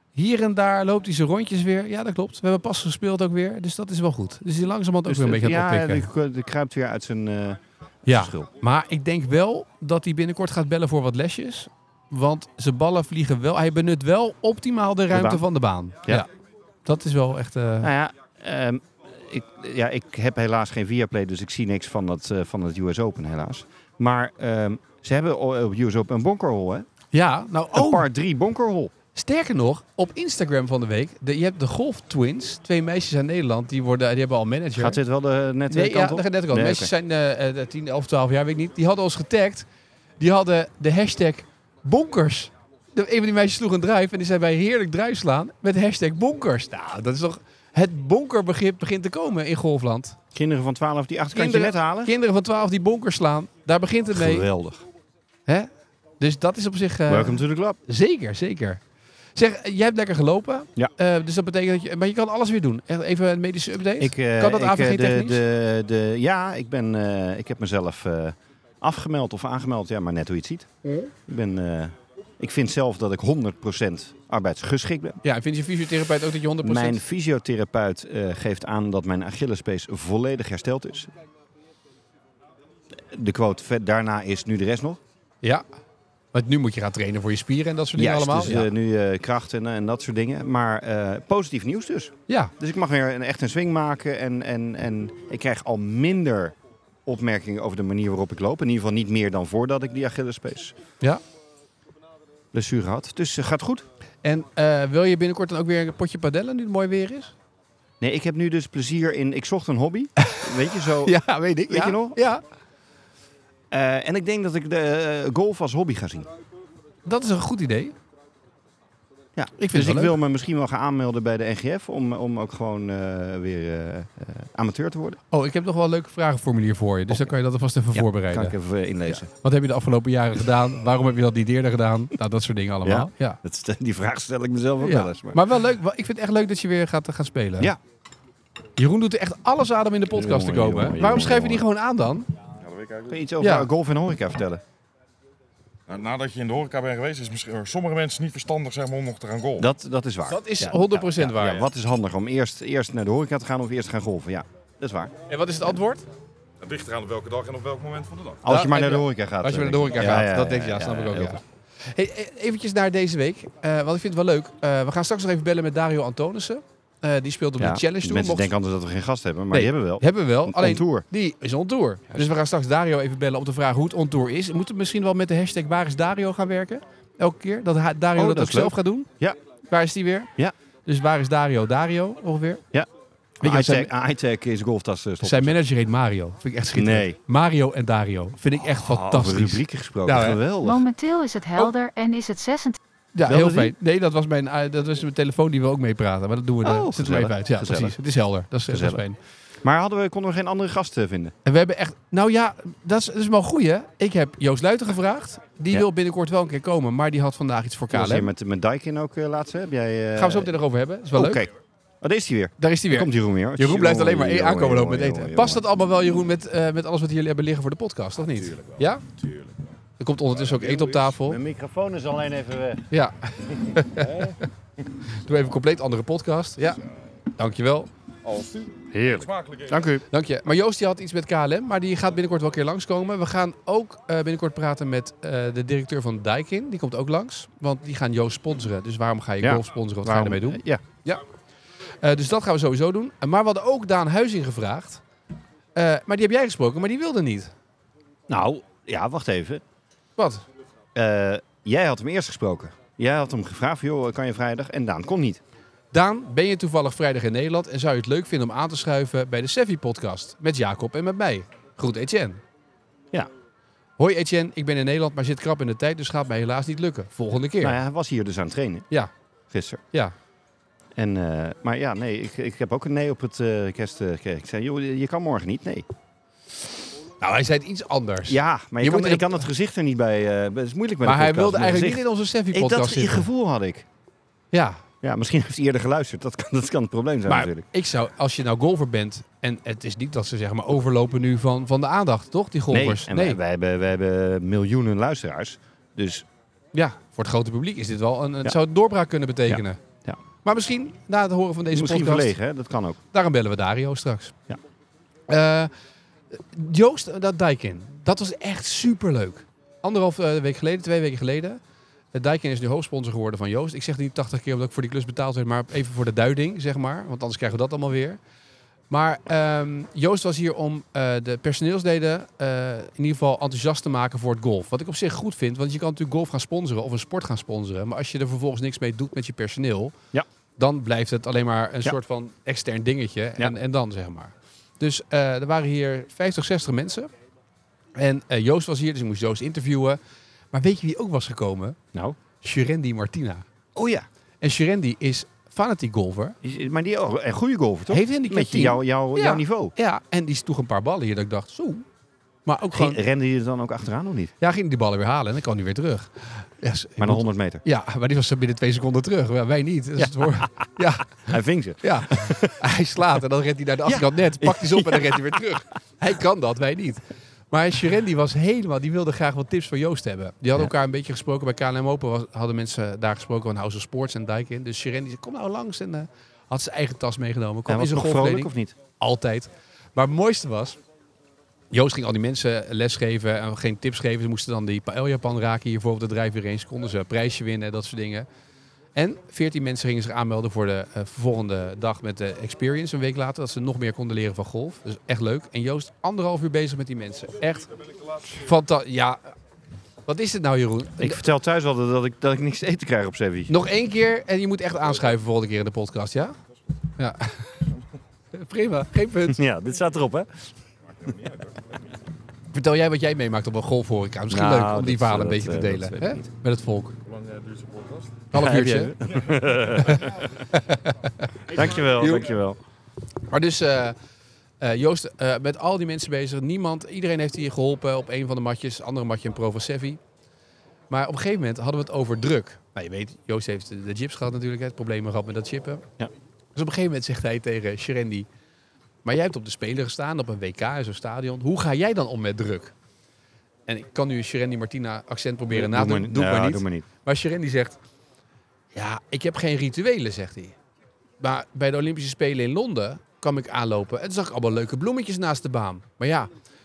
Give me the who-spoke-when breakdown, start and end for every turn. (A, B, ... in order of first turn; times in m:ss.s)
0:00.2-0:06.1 A
0:05.1-0:08.5 B
0:08.1-0:16.3 A
0:15.1-0:15.4 B
0:16.8-0:17.9 A
0:17.8-0:26.9 B
0:27.1-0:28.1 A
0:27.8-0:28.9 B
0:29.2-0:35.0 A
0:34.8-0:36.9 B
0:35.7-0:39.7 A
0:40.2-0:50.2 A
0:50.3-0:52.1 B
0:51.4-0:54.5 A
0:54.1-0:54.8 B
0:56.2-0:58.8 A
0:57.1-0:57.8 B
0:59.4-1:05.4 A
1:04.0-1:10.7 B
1:11.3-1:15.2 B
1:15.2-1:17.0 A
1:16.6-1:21.1 B
1:23.0-1:25.0 B
1:26.3-1:28.7 A
1:28.0-1:40.8 B
1:32.3-1:32.5 A
1:42.5-1:43.9 B
1:44.2-1:47.3 A
1:48.0-1:52.2 B
1:50.2-1:52.4 A
1:53.7-1:56.3 B
1:57.0-1:58.0 A
1:59.4-2:05.2 B
1:59.6-2:00.2 A
2:05.3-2:08.6 A
2:07.9-2:09.3 B
2:09.1-2:13.4 A
2:12.8-2:15.5 B
2:14.8-2:17.7 A
2:18.8-2:22.3 A
2:20.1-2:21.6 B
2:22.6-2:23.2 C
2:23.1-2:24.6 B
2:23.4-2:23.7 A
2:25.9-2:29.7 C
2:29.6-2:35.1 B
2:30.3-2:31.7 A
2:35.3-2:36.0 A
2:36.6-2:38.4 C
2:38.4-2:41.4 B
2:38.5-2:48.5 A
2:47.6-2:51.0 B
2:49.5-2:59.1 A
2:58.2-2:59.4 B
2:59.7-3:00.3 A
3:00.9-3:02.6 A
3:03.4-3:05.6 B
3:03.4-3:03.9 A
3:05.2-3:10.4 A
3:06.8-3:07.2 B
3:08.6-3:10.8 B
3:10.6-3:12.8 D
3:13.2-3:19.2 A
3:13.3-3:13.7 B
3:16.6-3:18.0 B
3:18.7-3:19.0 B
3:19.6-3:21.4 B
3:21.4-3:28.3 A
3:27.9-3:30.5 B
3:30.2-3:31.4 A
3:31.1-3:31.5 B
3:32.0-3:35.6 B
3:32.6-3:39.0 A
3:38.5-3:39.7 C
3:40.0-3:41.4 A
3:40.4-3:40.8 C
3:41.0-3:42.9 B
3:42.9-3:44.3 A
3:44.0-3:44.4 C
3:45.1-3:46.8 A
3:47.4-3:47.9 A
3:48.2-3:49.9 C
3:48.9-3:50.1 B
3:50.1-4:01.2 A
3:59.4-4:00.8 B
4:02.0-4:05.0 A
4:05.8-4:07.5 A
4:08.3-4:09.6 B
4:10.2-4:10.4 A
4:11.0-4:15.4 B
4:15.9-4:22.4 A
4:24.0-4:27.8 A
4:27.6-4:28.9 B
4:29.5-4:29.8 B
4:31.0-4:35.9 B
4:37.2-4:39.4 A
4:38.3-4:43.9 B
4:41.0-4:43.3 A
4:44.5-4:44.8 A
4:45.0-4:47.7 B
4:47.3-4:53.4 A
4:52.7-4:56.3 B
4:56.7-4:59.8 A
4:59.5-5:00.2 B
5:00.4-5:02.4 A
5:01.7-5:03.0 B
5:03.1-5:04.3 A
5:05.3-5:05.7 A
5:06.3-5:11.6 A
5:12.1-5:18.2 A
5:18.9-5:30.0 A
5:30.6-5:37.1 A
5:38.0-5:40.0 A
5:40.5-5:41.8 A
5:42.4-5:43.5 A
5:43.8-5:44.1 B
5:44.4-5:46.4 A
5:46.4-5:49.8 B
5:47.9-5:51.8 A
5:52.4-5:53.0 A
5:52.7-5:54.3 B
5:54.4-6:01.3 A
5:57.0-5:57.6 B
6:00.0-6:02.6 B
6:01.8-6:20.8 A
6:03.9-6:05.3 B
6:17.7-6:18.8 B
6:21.7-6:28.3 A
6:29.0-6:37.7 A
6:38.3-6:39.3 A
6:40.1-6:41.2 A
6:41.0-6:43.5 B
6:43.5-6:46.4 A
6:47.0-6:47.6 A
6:48.3-6:49.4 A
6:49.3-6:50.5 B
6:52.5-6:57.0 A
6:54.3-6:56.3 B
6:57.1-6:58.3 C
6:58.3-6:59.0 A
6:58.3-7:00.3 B
6:59.8-7:02.2 A
7:01.5-7:02.6 B
7:03.3-7:04.0 A
7:04.6-7:10.0 A
7:10.9-7:15.8 A
7:16.6-7:18.3 A
7:19.0-7:22.7 A
7:23.7-7:27.8 A
7:25.5-7:26.9 B
7:28.7-7:30.6 A
7:31.2-7:36.3 A